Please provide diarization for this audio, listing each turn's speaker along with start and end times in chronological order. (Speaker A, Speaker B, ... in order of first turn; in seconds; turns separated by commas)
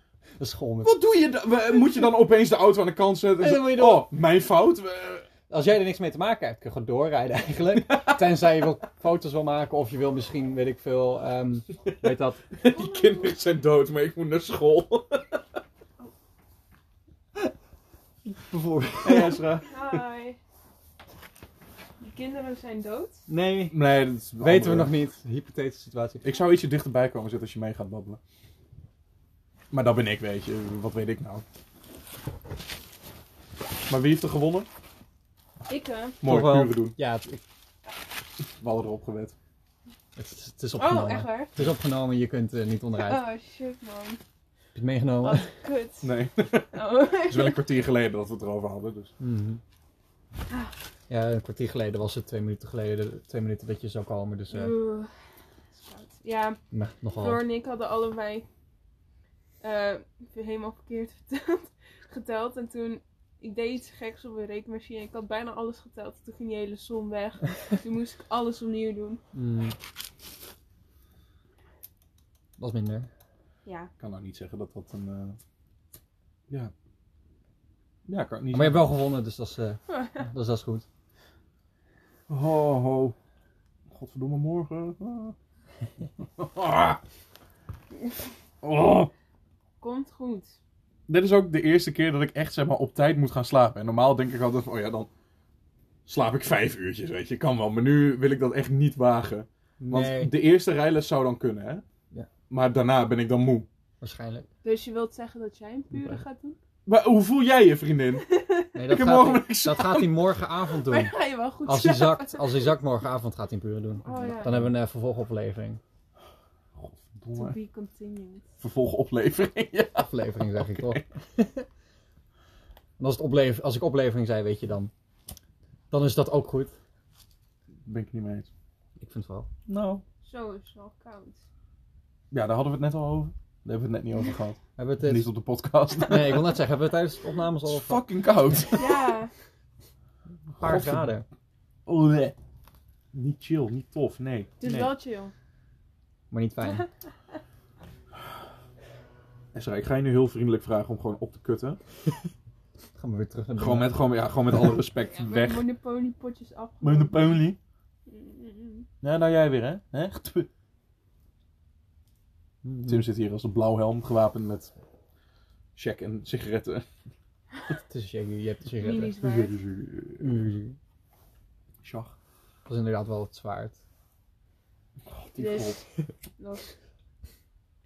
Speaker A: 0.4-0.9, Speaker B: 0.8-5.3, Speaker A: 3.4-4.1, Speaker A: 5.5-12.5, Speaker B: 7.9-8.2, Speaker B: 12.6-15.4, Speaker C: 12.7-13.3, Speaker A: 18.3-19.4, Speaker B: 19.0-20.0, Speaker C: 19.6-20.4, Speaker C: 22.0-23.2, Speaker A: 23.3-23.8, Speaker B: 23.7-24.9, Speaker A: 24.4-26.2, Speaker B: 26.2-28.2, Speaker B: 29.7-31.4, Speaker B: 33.9-34.7, Speaker C: 35.7-36.2, Speaker B: 36.2-37.0, Speaker A: 36.2-37.4, Speaker B: 38.6-39.4, Speaker A: 40.2-43.2, Speaker C: 40.8-41.5, Speaker C: 43.0-44.2, Speaker A: 44.8-45.5, Speaker C: 45.2-46.2, Speaker B: 46.0-49.1, Speaker C: 46.7-47.6, Speaker A: 49.2-49.6, Speaker A: 51.1-54.7, Speaker C: 54.5-55.1, Speaker C: 55.7-56.6, Speaker A: 56.7-57.4, Speaker C: 57.2-58.5, Speaker C: 59.6-69.2, Speaker A: 69.3-69.8, Speaker A: 72.6-73.1, Speaker C: 73.7-73.9, Speaker B: 74.0-75.4, Speaker B: 78.1-78.9, Speaker A: 78.5-80.9, Speaker C: 79.9-80.2, Speaker B: 82.3-83.2, Speaker B: 83.9-85.4, Speaker B: 86.2-87.0, Speaker B: 88.6-89.1, Speaker C: 89.8-90.6, Speaker B: 91.1-95.1, Speaker B: 96.1-101.8, Speaker A: 99.8-100.3, Speaker B: 102.5-103.7, Speaker A: 104.0-104.5, Speaker C: 104.6-106.6, Speaker A: 105.9-106.2, Speaker B: 106.9-108.2, Speaker C: 108.3-108.7, Speaker A: 108.7-111.1, Speaker B: 108.9-110.3, Speaker C: 110.8-112.7, Speaker A: 111.7-115.8, Speaker C: 114.0-114.5, Speaker B: 114.2-114.7, Speaker B: 116.8-117.6, Speaker C: 117.3-118.5, Speaker B: 118.6-121.0, Speaker A: 120.0-121.7, Speaker A: 123.0-124.9, Speaker A: 125.9-126.8, Speaker B: 127.9-128.5, Speaker A: 129.0-129.5, Speaker B: 129.7-130.0, Speaker C: 130.2-131.4, Speaker B: 132.3-136.6, Speaker A: 134.8-135.3, Speaker A: 136.0-138.0, Speaker B: 137.6-139.1, Speaker C: 138.7-139.3, Speaker B: 140.6-141.1, Speaker A: 140.6-141.2, Speaker B: 141.9-142.4, Speaker B: 143.1-144.6, Speaker C: 144.6-145.3, Speaker A: 144.6-144.9, Speaker A: 146.3-146.9, Speaker C: 146.6-146.9, Speaker B: 149.5-151.8, Speaker A: 153.0-154.0, Speaker B: 153.6-155.7, Speaker C: 155.1-157.5, Speaker B: 156.8-157.6, Speaker C: 158.1-158.9, Speaker B: 159.0-160.5, Speaker A: 162.6-163.1, Speaker B: 162.9-164.7, Speaker B: 165.8-166.9, Speaker A: 167.9-169.2, Speaker C: 168.8-169.6, Speaker B: 169.2-170.4, Speaker A: 170.2-170.8, Speaker B: 171.8-172.1, Speaker A: 172.7-173.8, Speaker B: 175.1-175.8, Speaker C: 175.4-175.8, Speaker C: 176.4-176.7